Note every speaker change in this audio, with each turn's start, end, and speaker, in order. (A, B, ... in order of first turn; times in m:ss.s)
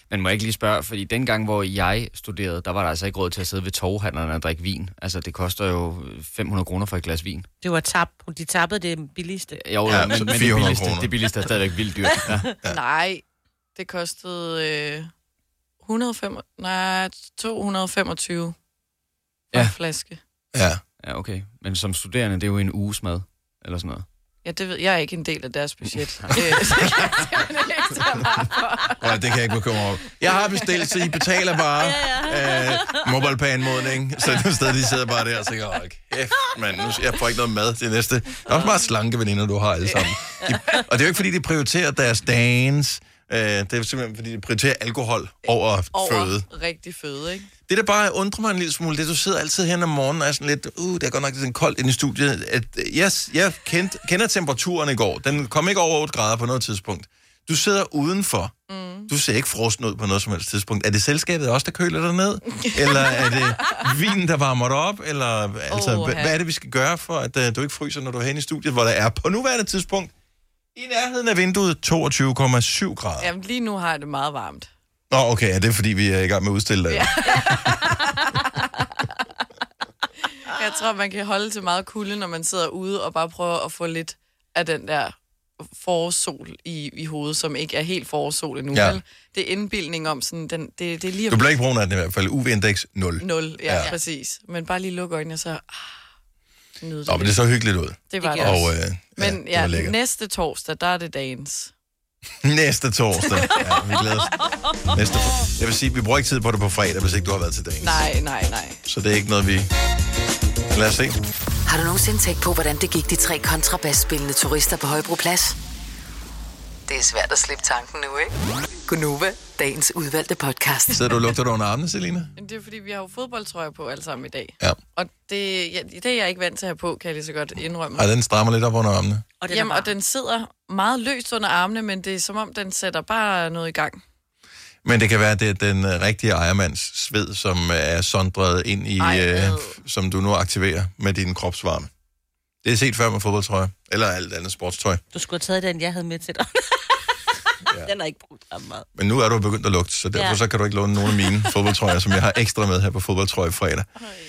0:00.1-0:07.5 A
0:07.6-0:10.2 B
0:09.6-0:12.5 A
0:09.9-0:11.1 C
0:12.6-0:13.2 D
0:13.7-0:15.1 D
0:15.8-0:18.6 D
0:19.5-0:20.2 D
0:20.5-0:20.8 C
0:21.0-0:24.0 A
0:24.4-0:29.0 D
0:29.0-0:46.4 C
0:30.2-0:30.9 D
0:31.8-0:33.1 B
0:38.5-0:38.7 B
0:40.5-0:40.8 B
0:45.9-0:47.5 D
0:47.7-0:58.5 C
0:58.7-0:59.1 D
0:59.1-1:10.1 C
1:02.6-1:03.9 D
1:05.7-1:06.4 D
1:10.7-1:13.3 C
1:13.2-1:14.7 D
1:15.1-1:17.8 C
1:16.9-1:18.7 D
1:20.4-1:31.5 D
1:28.7-1:29.0 C
1:31.3-1:33.9 C
1:33.2-1:36.0 D
1:36.8-1:37.4 D
1:37.1-1:39.9 C
1:38.1-1:41.7 D
1:38.2-1:38.6 B
1:42.4-1:48.0 C
1:47.8-1:48.8 D
1:48.8-1:49.7 C
1:50.7-1:51.2 C
1:51.6-1:55.6 E
1:56.9-1:58.3 E
1:58.9-2:01.0 E
2:00.9-2:02.3 C
2:02.4-2:08.1 D
2:08.0-2:09.2 C
2:09.4-2:09.9 B
2:09.5-2:14.0 D
2:14.8-2:21.9 C
2:19.0-2:19.8 D
2:22.6-2:25.0 C
2:25.1-2:27.1 B
2:27.6-2:27.9 C
2:27.8-2:28.9 B
2:29.0-2:33.9 C
2:30.1-2:30.4 B
2:31.0-2:31.7 B